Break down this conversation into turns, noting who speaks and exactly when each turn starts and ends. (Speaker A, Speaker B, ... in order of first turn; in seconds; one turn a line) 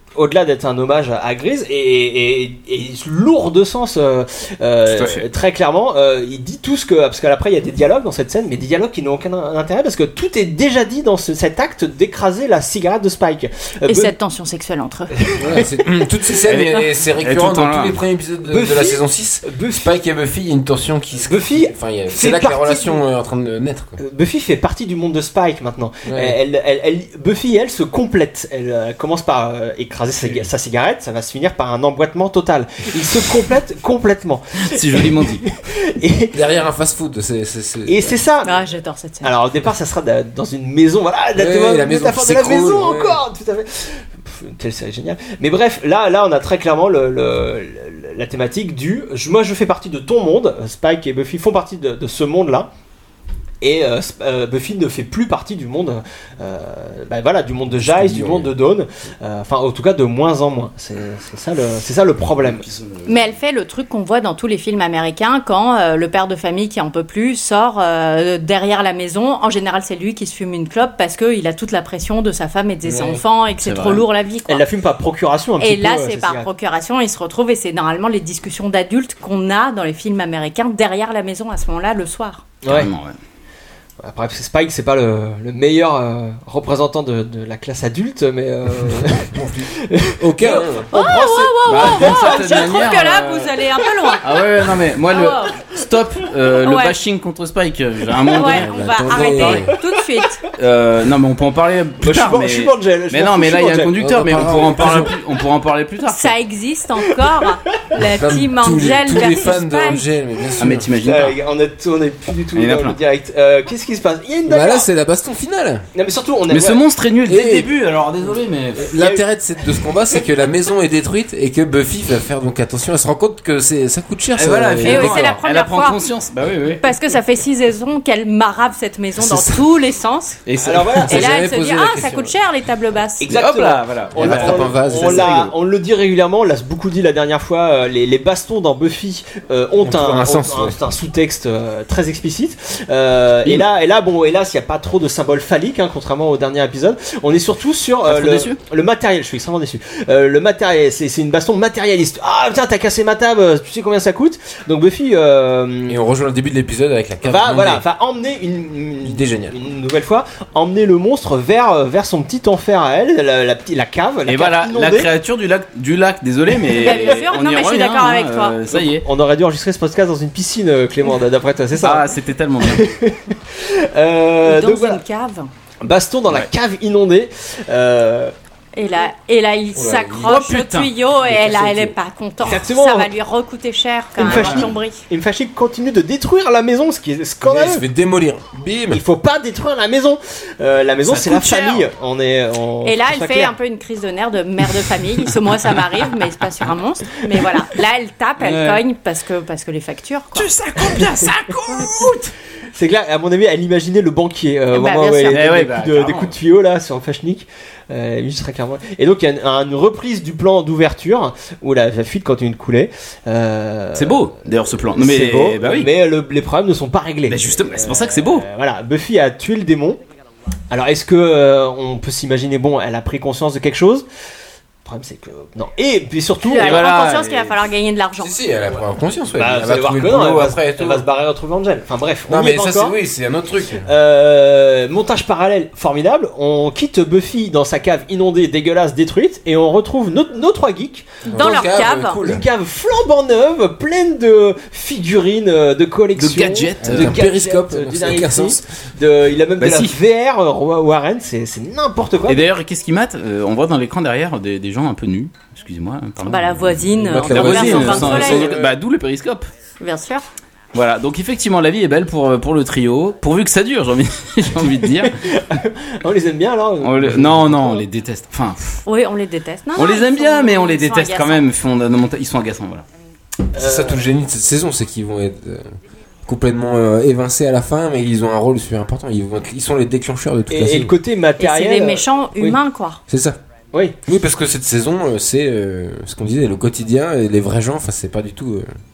Speaker A: 0.1-14.1
Speaker B: 4.9-5.2
Speaker C: 13.9-15.1
Speaker A: 15.3-15.9
Speaker D: 15.4-23.9
Speaker B: 16.4-18.0
Speaker A: 18.5-19.9
Speaker A: 21.2-23.0
Speaker A: 24.0-36.4
Speaker D: 26.0-26.4
Speaker B: 34.6-35.4
Speaker D: 36.3-38.2
Speaker A: 37.9-38.7
Speaker C: 38.4-39.3
Speaker A: 39.2-52.7
Speaker D: 41.3-43.2
Speaker A: 53.6-62.7
Speaker D: 57.7-58.5
Speaker B: 62.4-63.4
Speaker C: 63.0-74.6
Speaker D: 72.8-73.2
Speaker B: 73.6-74.0
Speaker A: 74.5-76.5
Speaker C: 75.6-82.5
Speaker A: 82.6-82.9
Speaker B: 82.7-83.2
Speaker A: 84.0-89.3
Speaker D: 88.7-90.9
Speaker A: 89.8-92.4
Speaker C: 90.9-94.2
Speaker B: 91.6-93.5
Speaker B: 94.2-98.7
Speaker C: 95.1-95.6
Speaker C: 96.6-97.0
Speaker C: 98.3-100.5
Speaker D: 98.4-99.7
Speaker B: 100.5-106.3
Speaker A: 102.0-103.9
Speaker D: 104.0-105.1
Speaker C: 106.1-110.0
Speaker D: 108.0-110.9
Speaker B: 110.6-111.4
Speaker A: 111.0-114.9
Speaker B: 112.5-113.0
Speaker D: 114.5-115.8
Speaker A: 115.9-116.8
Speaker B: 116.5-118.9
Speaker D: 117.3-117.7
Speaker D: 118.8-125.4
Speaker B: 124.3-126.9
Speaker C: 124.8-126.1
Speaker C: 126.8-130.4
Speaker D: 129.2-129.7
Speaker B: 130.5-131.1
Speaker A: 130.6-131.3
Speaker D: 131.0-132.4
Speaker C: 131.1-133.3
Speaker A: 133.2-156.0
Speaker B: 133.3-135.5
Speaker D: 134.1-135.4
Speaker D: 139.8-140.8
Speaker B: 148.1-148.6
Speaker D: 155.9-157.8
Speaker A: 157.2-165.1
Speaker D: 159.0-159.6
Speaker B: 164.3-169.0
Speaker C: 166.7-168.6
Speaker A: 168.7-172.1
Speaker B: 171.8-172.9
Speaker A: 172.6-175.0
Speaker C: 174.4-175.5
Speaker A: 175.8-178.3
Speaker C: 178.7-185.0
Speaker D: 179.7-180.4
Speaker B: 180.2-180.9
Speaker D: 181.2-181.9
Speaker A: 182.4-183.1
Speaker A: 184.2-187.8
Speaker B: 184.2-184.7
Speaker D: 187.4-189.0
Speaker A: 188.9-193.5
Speaker B: 191.0-191.9
Speaker C: 192.8-200.5
Speaker B: 198.4-198.8
Speaker B: 200.3-202.3
Speaker A: 200.9-201.2
Speaker A: 202.7-220.0
Speaker C: 204.7-205.5
Speaker B: 205.3-206.3
Speaker B: 213.9-215.9
Speaker B: 217.3-218.5
Speaker A: 220.7-224.1
Speaker A: 224.8-226.9
Speaker C: 226.4-228.4
Speaker B: 226.5-227.6
Speaker D: 228.2-231.1
Speaker A: 229.3-233.0
Speaker D: 232.3-233.9
Speaker A: 233.8-252.5
Speaker D: 241.2-242.4
Speaker C: 241.3-242.2
Speaker B: 246.2-247.1
Speaker D: 246.8-248.6
Speaker B: 249.6-249.9
Speaker B: 252.2-259.5
Speaker C: 256.2-258.5
Speaker D: 256.9-258.7
Speaker A: 258.1-258.6
Speaker C: 259.8-260.2
Speaker B: 260.7-265.1
Speaker A: 265.0-267.8
Speaker B: 266.8-268.8
Speaker C: 268.8-271.4
Speaker B: 269.7-272.8
Speaker A: 273.5-274.1
Speaker D: 273.5-275.7
Speaker D: 276.2-281.0
Speaker A: 280.5-282.6
Speaker C: 281.4-283.0
Speaker D: 283.1-283.4
Speaker A: 283.7-284.0
Speaker D: 284.0-288.7